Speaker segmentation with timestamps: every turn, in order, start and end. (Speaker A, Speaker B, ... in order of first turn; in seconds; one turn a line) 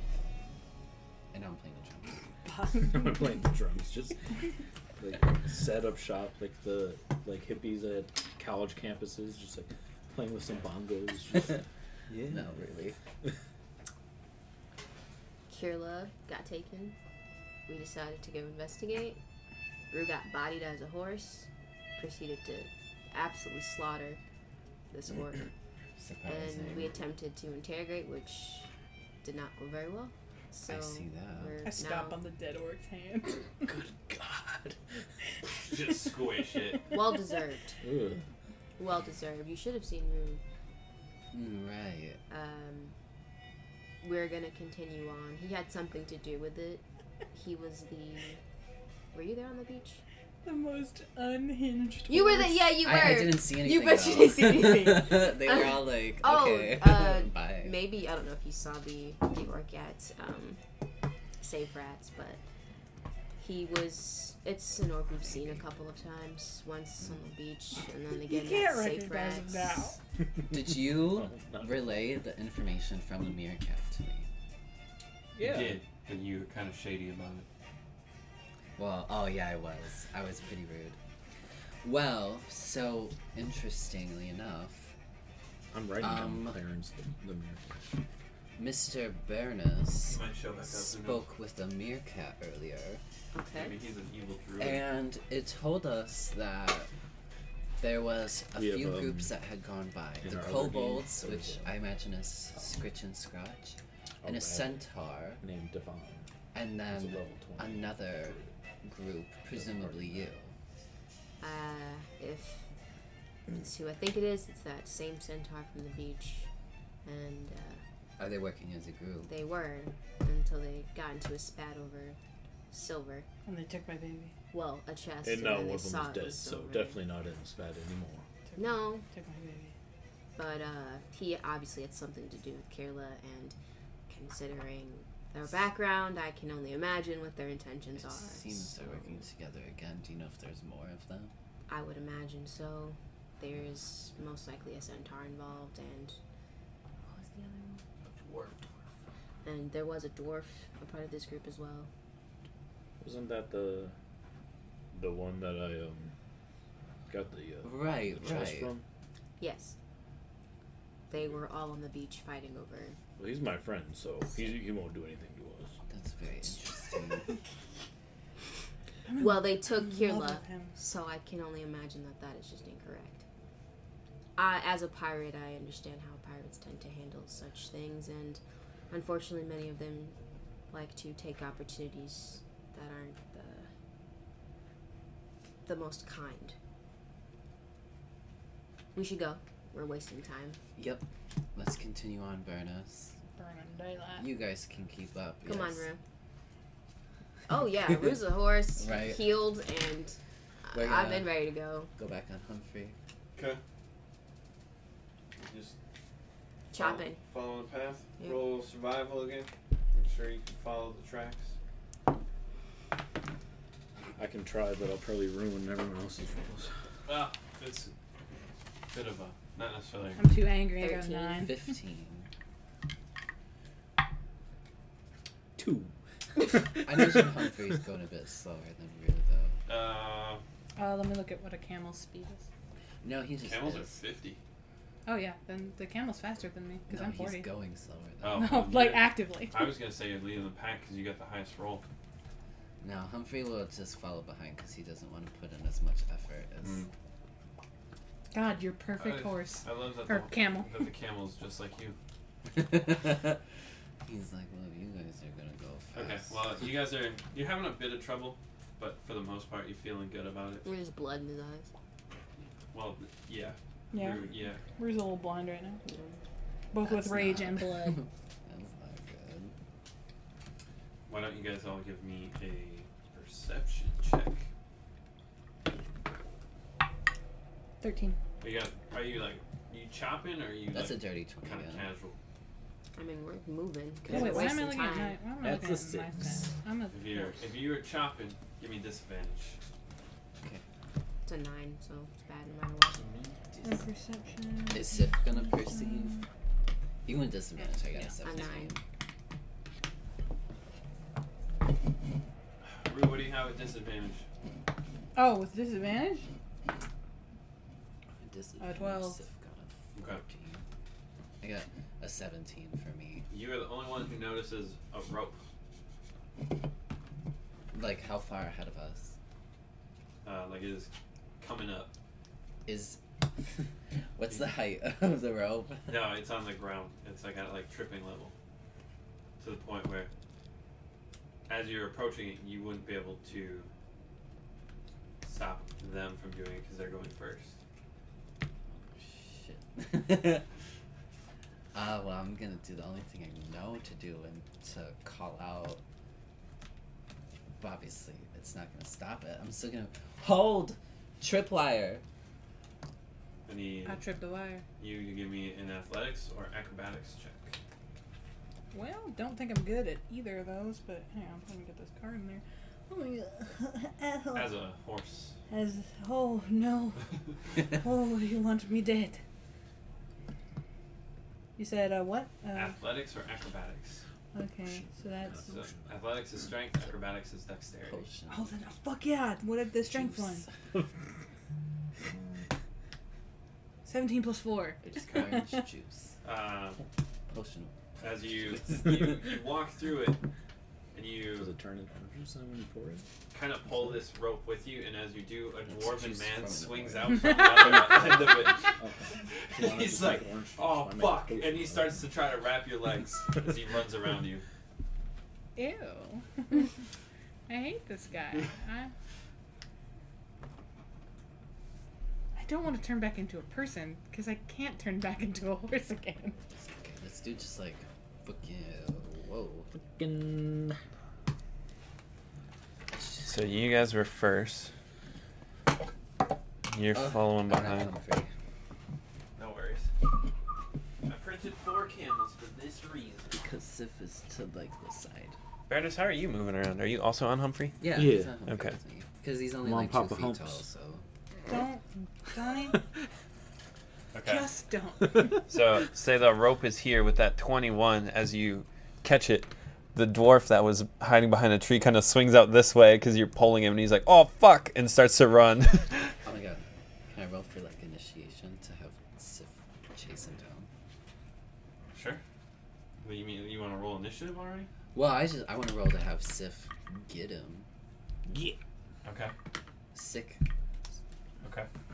Speaker A: 1.3-2.2
Speaker B: 2.5-3.4
Speaker C: 2.7-4.2
Speaker C: 5.0-12.6
Speaker A: 12.3-13.0
Speaker D: 15.5-16.9
Speaker D: 17.7-19.2
Speaker D: 19.9-24.2
Speaker D: 24.9-25.5
Speaker A: 26.0-26.9
Speaker D: 26.2-28.7
Speaker D: 29.2-32.2
Speaker A: 30.6-31.5
Speaker B: 31.6-33.4
Speaker C: 33.6-34.8
Speaker E: 35.6-36.9
Speaker D: 36.9-37.8
Speaker C: 37.8-38.2
Speaker D: 38.8-40.4
Speaker A: 41.3-42.2
Speaker D: 42.3-42.9
Speaker D: 44.0-48.4
Speaker D: 49.1-50.0
Speaker B: 50.4-52.7
Speaker D: 52.1-60.6
Speaker A: 52.8-57.7
Speaker D: 61.4-62.4
Speaker D: 63.4-69.9
Speaker A: 65.2-65.6
Speaker B: 68.2-70.0
Speaker C: 70.3-72.0
Speaker A: 70.5-74.3
Speaker C: 75.3-75.8
Speaker E: 75.4-77.5
Speaker A: 78.8-81.0
Speaker A: 81.8-84.9
Speaker C: 85.7-87.7
Speaker A: 86.0-86.6
Speaker A: 88.6-93.0
Speaker E: 90.0-91.3
Speaker D: 93.3-93.8
Speaker E: 93.5-94.8
Speaker A: 94.6-96.9
Speaker A: 97.8-105.4
Speaker C: 98.5-99.3
Speaker C: 100.2-101.8
Speaker C: 104.2-104.8
Speaker C: 105.4-106.2
Speaker A: 106.5-110.5
Speaker C: 106.9-108.5
Speaker C: 109.5-110.3
Speaker D: 111.4-112.7
Speaker D: 113.5-116.5
Speaker D: 117.0-117.8
Speaker A: 118.2-119.3
Speaker D: 119.3-122.2
Speaker D: 122.7-123.2
Speaker B: 123.4-124.3
Speaker D: 124.5-127.0
Speaker C: 125.2-128.2
Speaker B: 128.5-129.7
Speaker D: 128.6-129.0
Speaker D: 130.3-133.6
Speaker D: 134.1-139.2
Speaker A: 137.9-141.3
Speaker D: 141.7-146.2
Speaker D: 147.1-147.8
Speaker E: 148.0-148.7
Speaker D: 149.4-151.9
Speaker C: 153.0-153.9
Speaker C: 154.9-156.1
Speaker C: 157.1-158.8
Speaker A: 157.6-158.7
Speaker D: 159.4-159.7
Speaker D: 161.1-163.0
Speaker C: 163.2-165.7
Speaker A: 165.9-167.3
Speaker B: 169.1-170.7
Speaker D: 169.2-173.2
Speaker D: 174.3-180.2
Speaker D: 180.7-183.7
Speaker D: 185.6-186.6
Speaker D: 188.9-190.6
Speaker A: 190.8-193.1
Speaker B: 193.4-194.2
Speaker A: 194.2-195.9
Speaker D: 195.4-196.0
Speaker D: 197.5-201.9
Speaker A: 198.8-199.4
Speaker A: 200.7-201.3
Speaker A: 201.9-202.9
Speaker E: 203.3-203.6
Speaker E: 205.4-205.8
Speaker D: 206.7-207.2
Speaker E: 206.7-211.5
Speaker C: 214.2-216.7
Speaker E: 217.1-217.9
Speaker E: 218.9-220.3
Speaker B: 220.2-221.7
Speaker D: 220.7-221.5
Speaker A: 221.3-222.3
Speaker C: 225.6-227.6
Speaker A: 226.8-229.6
Speaker E: 229.7-230.4
Speaker B: 230.8-232.4
Speaker A: 233.0-233.9
Speaker E: 233.4-234.4
Speaker B: 235.1-237.5
Speaker A: 236.9-238.6
Speaker E: 238.2-241.8
Speaker B: 238.3-239.7
Speaker A: 242.8-246.9
Speaker E: 246.6-246.9
Speaker B: 248.3-250.7
Speaker E: 249.0-251.9
Speaker A: 252.4-253.4
Speaker A: 254.0-256.4
Speaker E: 255.9-260.6
Speaker D: 260.6-261.7
Speaker E: 262.7-264.6
Speaker B: 263.9-265.8
Speaker D: 265.8-266.2
Speaker B: 266.7-268.0
Speaker A: 266.8-269.5
Speaker E: 271.1-274.4
Speaker B: 277.8-278.2
Speaker E: 278.4-282.2
Speaker A: 280.7-281.9
Speaker D: 282.9-285.2
Speaker C: 284.1-284.7
Speaker B: 284.1-287.4
Speaker C: 285.4-286.5
Speaker E: 286.9-289.6
Speaker D: 291.2-293.0
Speaker E: 292.9-293.4
Speaker A: 293.5-293.8
Speaker B: 293.6-296.2
Speaker A: 294.7-296.1
Speaker A: 297.0-298.8
Speaker D: 298.2-298.7
Speaker E: 302.8-304.2
Speaker B: 305.1-306.3
Speaker A: 308.1-310.6
Speaker B: 308.6-309.2
Speaker E: 309.9-310.2
Speaker A: 311.4-313.2
Speaker E: 313.3-315.4
Speaker A: 317.7-319.1
Speaker E: 320.2-321.9
Speaker A: 322.6-326.0
Speaker E: 325.9-328.3
Speaker E: 329.4-330.1
Speaker E: 331.5-333.7
Speaker E: 335.2-337.6
Speaker A: 338.7-340.4
Speaker A: 341.7-345.8
Speaker A: 347.6-352.0
Speaker E: 353.5-354.0
Speaker B: 353.9-354.6
Speaker E: 354.8-357.5
Speaker B: 358.7-364.6
Speaker E: 364.3-365.4
Speaker B: 365.5-369.2
Speaker B: 371.6-372.7
Speaker E: 372.5-374.0
Speaker B: 374.3-375.6
Speaker C: 374.6-375.9
Speaker E: 375.5-378.1
Speaker A: 377.8-378.5
Speaker B: 378.3-380.4
Speaker A: 379.8-380.5
Speaker B: 383.8-385.5
Speaker A: 384.8-386.1
Speaker E: 386.2-386.8
Speaker A: 387.3-387.7
Speaker E: 388.0-390.2
Speaker A: 388.4-389.3
Speaker E: 390.9-391.5
Speaker C: 391.4-393.1
Speaker E: 393.3-404.4
Speaker A: 395.6-397.7
Speaker B: 397.1-398.1
Speaker C: 397.6-402.0
Speaker B: 405.6-406.7
Speaker B: 407.5-408.9
Speaker B: 412.4-416.4
Speaker A: 416.5-419.7
Speaker C: 419.8-420.8
Speaker E: 423.2-424.7
Speaker E: 426.7-427.9
Speaker A: 426.9-428.3
Speaker E: 429.4-429.9
Speaker E: 431.0-433.4
Speaker A: 433.3-435.4
Speaker E: 435.7-437.8
Speaker A: 437.8-441.0
Speaker C: 437.9-438.3
Speaker E: 438.4-438.8
Speaker C: 439.6-440.6
Speaker B: 441.5-442.8
Speaker E: 444.1-444.5
Speaker B: 444.2-445.4
Speaker C: 445.1-445.4
Speaker E: 445.5-456.1
Speaker A: 456.2-460.7
Speaker E: 461.9-462.2
Speaker E: 463.0-464.7
Speaker A: 464.9-467.7
Speaker C: 468.3-468.6
Speaker E: 469.0-469.3
Speaker A: 469.9-470.4
Speaker E: 471.4-471.7